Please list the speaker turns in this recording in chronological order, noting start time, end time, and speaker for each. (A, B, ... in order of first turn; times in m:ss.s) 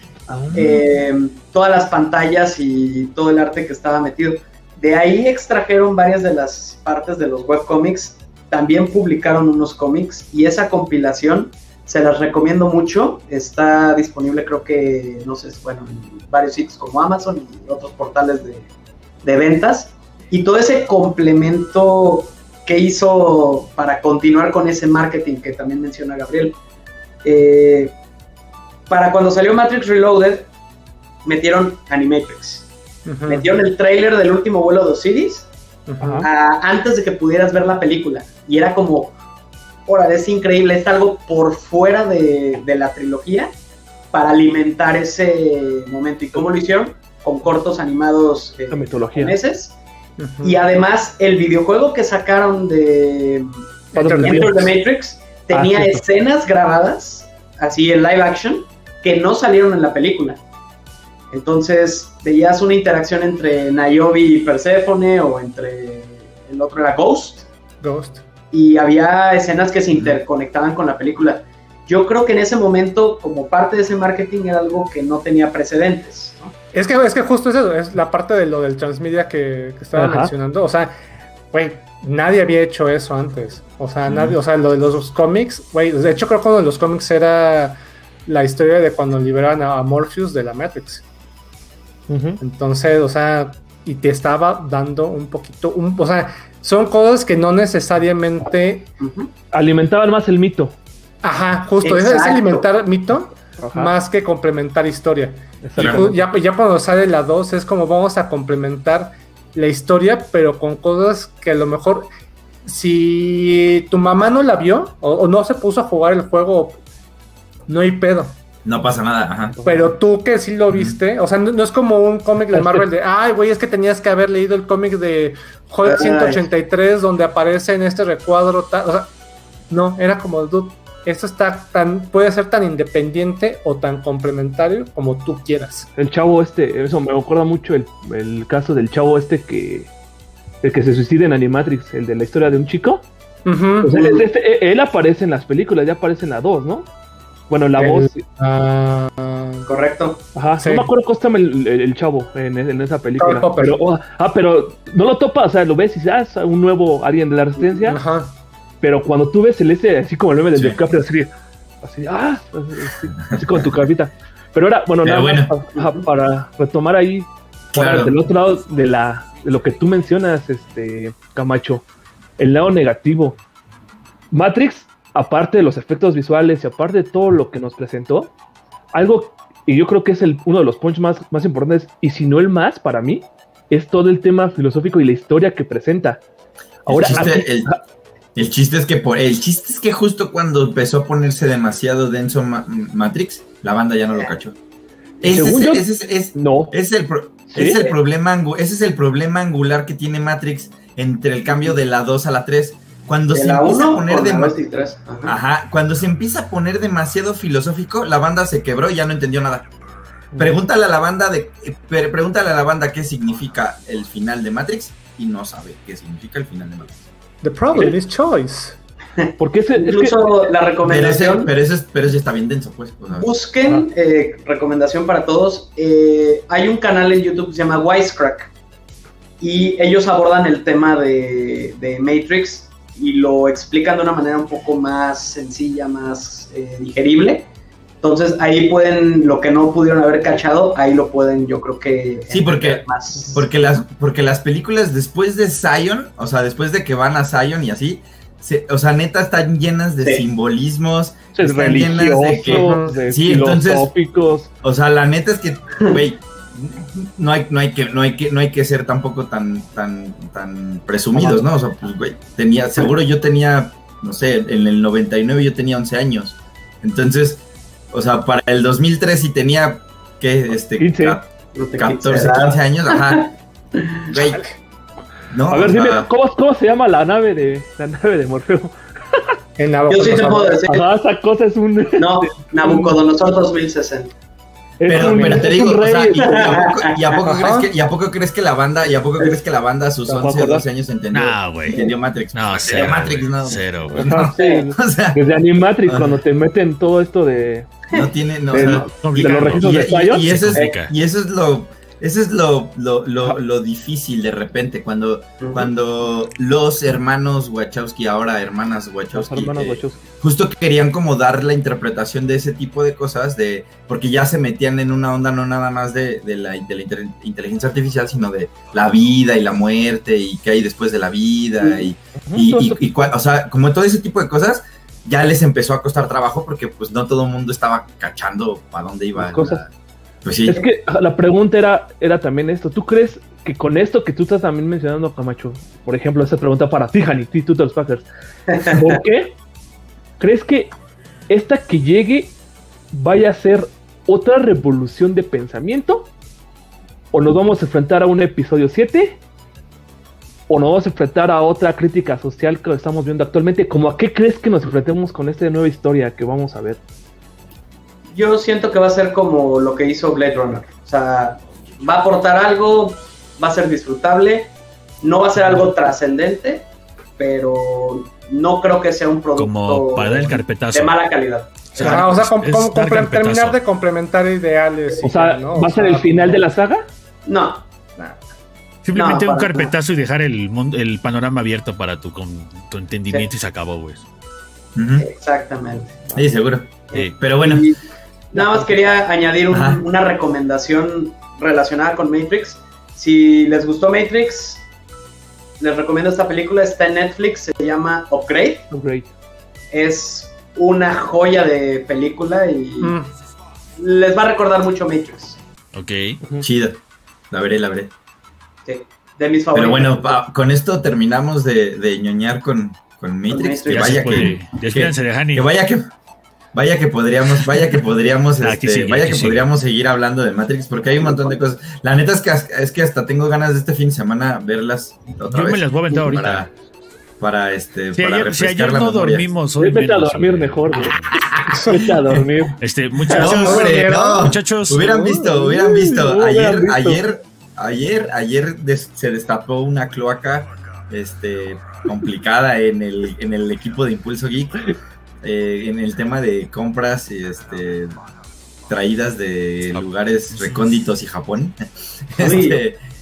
0:00.5-0:00.8 A
0:00.5-0:18.7 B
0:19.2-0:26.6 B
0:27.2-0:27.9 B
0:28.9-0:30.5 B
0:31.2-0:32.7 B
0:33.1-0:33.6 C
0:33.3-0:35.5 B
0:35.9-0:36.3 C
0:36.0-0:36.3 D
0:36.2-0:39.2 B
0:39.9-0:43.5 B
0:44.1-0:49.8 B
0:48.7-0:49.4 D
0:50.2-0:50.6 C
0:50.4-1:00.4 B
0:53.9-0:54.6 C
0:54.0-0:54.8 D
0:55.5-0:56.0 D
1:01.3-1:07.5 B
1:07.8-1:08.2 C
1:08.5-1:16.5 B
1:16.7-1:21.0 C
1:20.0-1:20.3 D
1:21.5-1:31.0 C
1:24.1-1:24.4 A
1:32.1-1:32.4 D
1:32.4-1:38.9 C
1:39.0-1:39.3 B
1:39.5-1:40.8 D
1:41.2-1:52.1 C
1:41.8-1:42.7 B
1:43.6-1:43.9 D
1:45.6-1:46.2 D
1:45.8-1:46.1 A
1:52.7-1:56.8 C
1:57.7-1:58.4 C
1:58.6-1:59.6 A
1:59.6-1:59.9 D
1:59.6-2:09.1 C
2:00.7-2:01.0 A
2:02.5-2:02.8 D
2:05.8-2:06.4 B
2:09.7-2:15.9 C
2:16.0-2:19.9 D
2:20.6-2:23.0 D
2:23.5-2:24.0 C
2:23.8-2:26.9 D
2:23.9-2:24.2 B
2:27.5-2:28.2 D
2:27.8-2:29.7 C
2:29.7-2:30.2 B
2:30.4-2:38.0 D
2:30.6-2:30.9 C
2:33.2-2:33.8 C
2:37.8-2:38.4 C
2:38.8-2:41.3 D
2:40.6-2:40.8 A
2:41.8-2:51.9 D
2:43.2-2:43.7 A
2:45.0-2:45.6 A
2:45.8-2:46.0 B
2:47.7-2:48.2 A
2:52.4-2:53.4 D
2:54.3-2:58.3 D
2:58.9-3:06.2 D
3:06.8-3:07.8 D
3:06.9-3:07.7 A
3:08.4-3:14.6 A
3:15.2-3:24.6 A
3:15.2-3:16.7 D
3:17.5-3:17.8 D
3:17.7-3:17.9 B
3:23.3-3:25.4 B
3:25.2-3:29.7 A
3:30.4-3:37.0 A
3:37.4-3:38.8 C
3:39.2-3:41.5 B
3:39.4-3:40.3 D
3:40.8-3:43.3 A
3:43.1-3:48.5 B
3:49.4-3:57.5 B
3:58.0-4:03.5 B
4:02.3-4:13.9 A
4:11.3-4:14.5 D
4:12.5-4:12.9 C
4:14.6-4:33.3 A
4:21.2-4:21.4 D
4:30.8-4:31.2 D
4:31.6-4:34.2 B
4:34.0-4:34.5 A
4:35.3-4:36.1 A
4:35.5-4:39.2 D
4:39.6-4:40.6 C
4:39.9-4:40.9 B
4:40.7-4:43.0 D
4:42.0-4:44.1 B
4:44.8-4:46.7 D
4:44.9-4:55.2 A
4:44.9-4:45.5 B
4:46.3-4:47.4 B
4:47.4-4:47.7 C
4:50.1-4:50.7 D
4:51.1-4:54.1 E
4:51.7-4:51.9 B
4:54.0-4:57.8 D
4:54.4-4:54.7 B
4:55.8-4:56.2 A
4:57.9-5:29.7 A
4:58.5-5:00.4 D
4:59.0-5:00.9 E
5:05.4-5:05.7 B
5:09.1-5:10.0 D
5:21.6-5:21.9 B
5:22.3-5:22.8 D
5:29.2-5:29.6 D
5:30.2-5:30.6 A
5:30.5-5:38.1 D
5:38.6-5:38.8 B
5:38.6-5:39.4 D
5:40.2-5:40.7 D
5:41.3-5:42.4 D
5:42.9-5:46.1 D
5:47.1-5:49.2 D
5:50.5-5:56.8 D
5:58.1-6:12.1 B
6:09.4-6:11.0 E
6:11.7-6:13.6 E
6:11.8-6:16.5 C
6:15.0-6:16.9 D
6:17.3-6:17.6 B
6:18.8-6:24.0 E
6:18.9-6:19.7 B
6:24.8-6:25.1 A
6:25.0-6:26.3 B
6:26.2-6:27.7 A
6:26.9-6:27.8 B
6:28.3-6:34.6 B
6:28.4-6:28.6 D
6:29.5-6:29.8 A
6:35.6-6:38.7 B
6:38.7-6:39.1 D
6:39.7-6:43.0 B
6:42.8-6:43.1 C
6:43.8-6:45.4 B
6:45.7-6:46.2 E
6:46.4-6:46.8 A
6:47.3-6:47.9 A
6:48.7-6:50.2 B
6:49.5-6:55.9 A
6:53.3-6:54.4 B
6:53.7-6:55.5 E
6:56.5-7:06.5 A
6:58.4-6:59.4 E
7:05.3-7:06.5 E
7:07.2-7:09.3 A
7:08.0-7:11.2 E
7:09.6-7:12.6 D
7:11.5-7:11.9 C
7:11.7-7:12.2 A
7:12.6-7:14.8 E
7:13.1-7:15.3 C
7:13.1-7:24.7 A
7:15.3-7:17.0 D
7:25.2-7:28.0 A
7:28.7-7:31.6 A
7:29.7-7:30.8 E
7:32.1-7:32.8 A
7:32.2-7:32.6 B